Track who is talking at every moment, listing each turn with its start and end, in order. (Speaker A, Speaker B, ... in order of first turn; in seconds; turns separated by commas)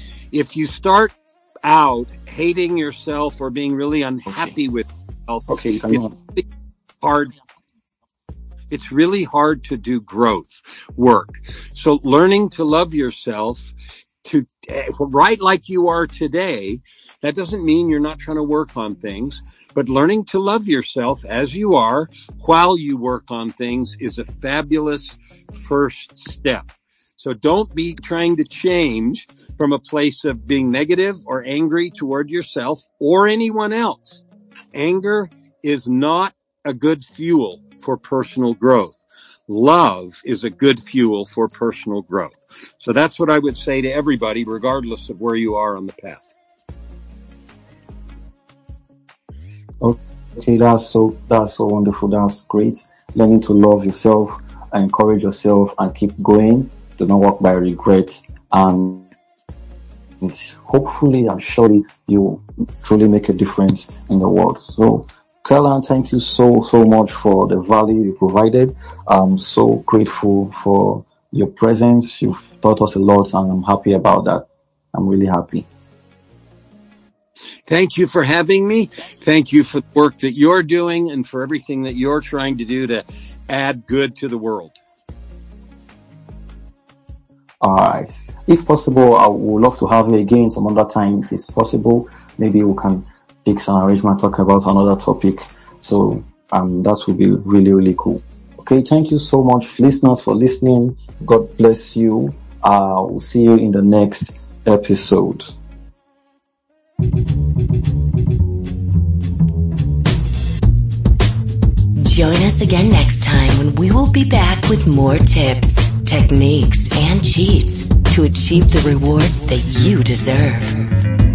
Speaker A: 0.3-6.5, Speaker B: 5.5-6.1, Speaker A: 7.0-7.3, Speaker A: 8.7-34.2, Speaker A: 34.7-46.2, Speaker B: 49.8-59.0, Speaker B: 60.2-75.7, Speaker A: 77.7-84.8, Speaker B: 87.6-105.5, Speaker C: 112.0-121.0